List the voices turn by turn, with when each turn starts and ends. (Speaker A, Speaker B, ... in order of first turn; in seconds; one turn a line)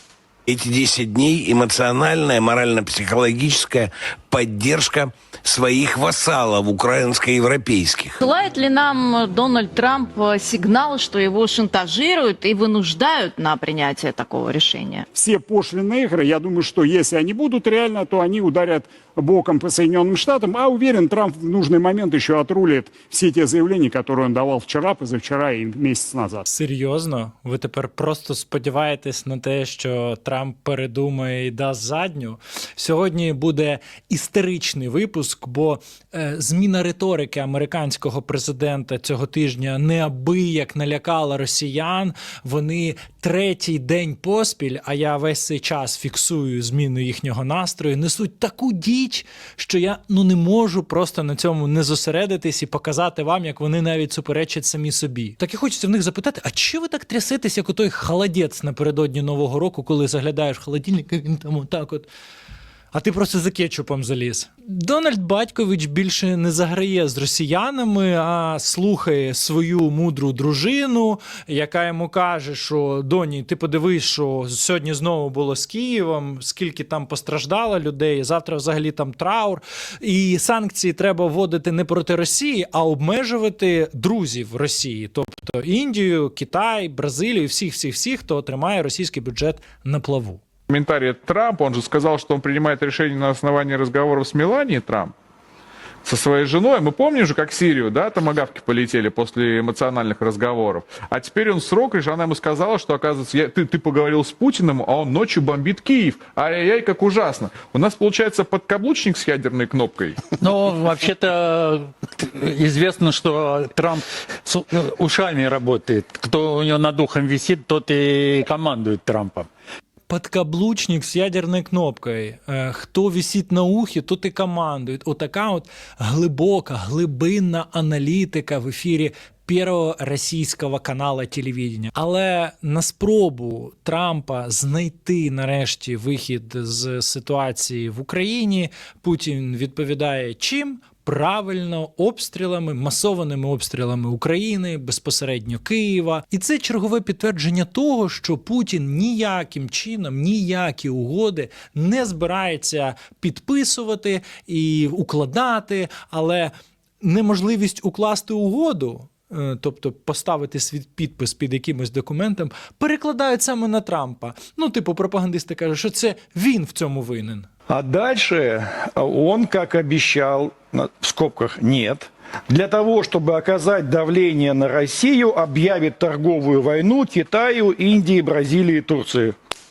Speaker A: 0.5-8.2
Speaker B: 8.2-15.1
Speaker C: 15.1-26.4
Speaker D: 26.5-62.1
Speaker D: 62.9-90.4
Speaker E: 90.7-95.1
Speaker E: 96.0-110.2
Speaker F: 110.4-119.5
Speaker D: 120.1-167.5
Speaker G: 167.7-179.3